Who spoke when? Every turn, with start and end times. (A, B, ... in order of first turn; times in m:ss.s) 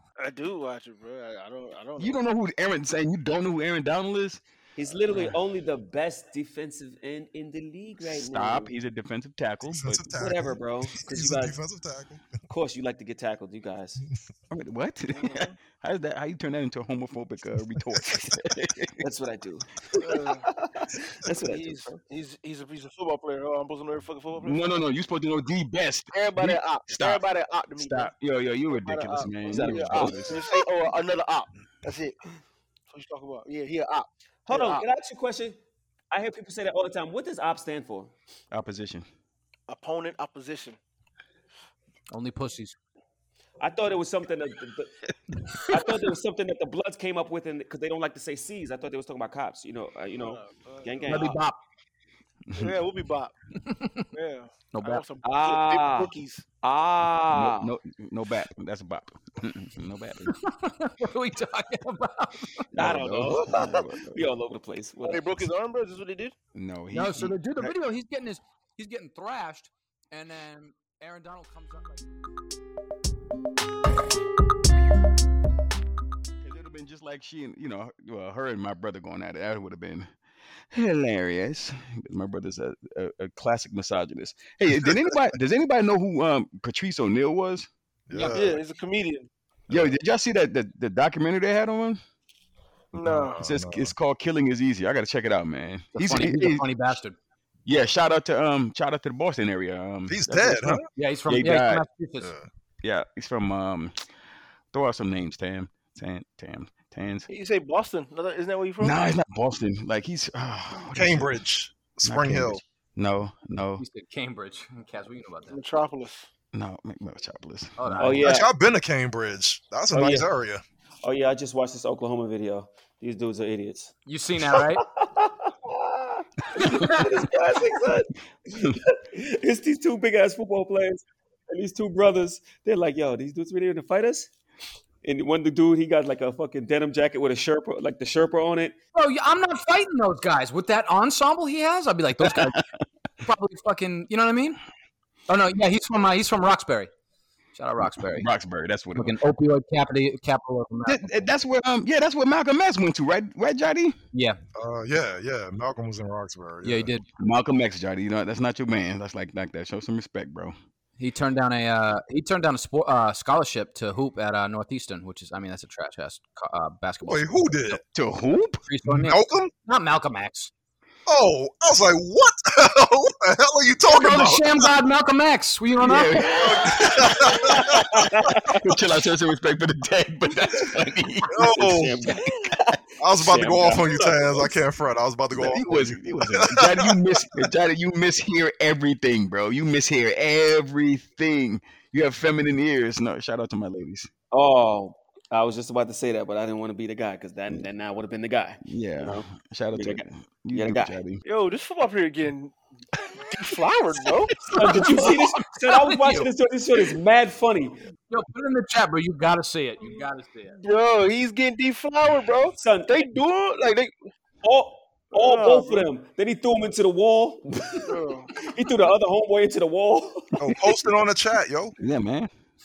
0:00.2-0:02.2 A
0:02.0-0:04.4 B
0:04.8-0:08.7 C
0:05.1-0:05.4 B
0:08.1-0:10.0 B
0:09.7-0:12.3 D
0:10.1-0:11.6 C
0:12.5-0:14.0 C
0:14.5-0:19.0 B
0:15.1-0:15.6 A
0:18.0-0:18.3 D
0:19.0-0:22.0 C
0:20.0-0:20.5 A
0:21.3-0:24.7 A
0:24.4-0:27.2 B
0:26.1-0:28.1 A
0:27.8-0:30.4 B
0:28.7-0:32.2 A
0:29.5-0:29.9 C
0:32.9-0:34.9 A
0:34.5-0:35.6 C
0:36.1-0:38.1 C
0:38.5-0:39.1 B
0:39.7-0:40.8 A
0:42.1-0:42.8 E
0:43.6-0:44.9 C
0:45.7-0:51.4 C
0:50.2-0:51.3 A
0:51.1-0:51.6 E
0:52.5-0:52.7 B
0:52.5-0:53.3 A
0:53.6-0:54.1 E
0:54.1-0:56.4 A
0:54.7-0:55.0 E
0:55.2-0:57.7 C
0:57.4-1:00.4 B
1:00.3-1:02.7 E
1:02.7-1:04.2 B
1:02.7-1:05.3 C
1:05.0-1:06.4 A
1:06.5-1:07.8 B
1:06.9-1:12.0 E
1:16.4-1:20.1 B
1:20.7-1:27.7 B
1:24.7-1:25.2 D
1:28.1-1:28.6 D
1:28.1-1:28.4 E
1:28.3-1:29.3 A
1:29.7-1:30.0 D
1:29.7-1:32.0 B
1:32.9-1:33.4 A
1:33.0-1:33.9 D
1:33.4-1:36.6 B
1:35.9-1:37.2 E
1:37.7-1:40.2 B
1:40.1-1:40.9 D
1:40.3-1:40.8 C
1:40.9-1:42.3 E
1:41.3-1:41.8 B
1:42.2-1:42.5 D
1:42.8-1:44.1 B
1:44.7-1:47.3 B
1:47.3-1:49.0 A
1:48.8-1:51.4 B
1:50.9-1:52.6 D
1:52.0-1:53.8 B
1:53.8-1:55.6 E
1:55.5-1:56.3 A
1:56.5-1:58.3 B
1:57.8-1:58.3 E
1:58.0-1:58.5 C
1:58.2-2:00.6 D
1:59.9-2:00.3 C
2:01.0-2:14.3 C
2:04.1-2:04.8 E
2:06.6-2:07.1 E
2:15.0-2:18.8 C
2:19.0-2:22.6 E
2:22.2-2:22.7 B
2:23.2-2:24.6 E
2:25.3-2:26.9 E
2:27.6-2:28.3 E
2:27.8-2:29.2 B
2:29.0-2:31.2 E
2:30.9-2:34.0 B
2:34.1-2:34.4 E
2:34.6-2:36.9 D
2:36.6-2:37.0 E
2:37.2-2:40.6 B
2:41.0-2:47.8 E
2:47.0-2:47.8 D
2:47.9-2:48.6 B
2:48.7-2:50.5 E
2:48.8-2:49.5 D
2:51.1-2:54.8 D
2:53.9-2:56.7 E
2:55.8-2:57.9 B
2:56.4-2:58.0 D
2:57.2-2:58.7 C
2:58.6-3:01.5 B
3:01.3-3:02.1 D
3:01.4-3:04.5 C
3:03.0-3:07.0 D
3:05.3-3:14.1 B
3:14.3-3:21.0 C
3:18.6-3:21.2 B
3:21.2-3:22.6 A
3:23.3-3:24.5 A
3:24.5-3:27.8 C
3:24.5-3:26.3 E
3:28.1-3:30.6 E
3:30.5-3:33.9 A
3:32.6-3:33.0 C
3:34.4-3:40.7 C
3:35.1-3:35.9 A
3:37.8-3:38.3 A
3:40.4-3:41.8 D
3:41.8-3:42.3 B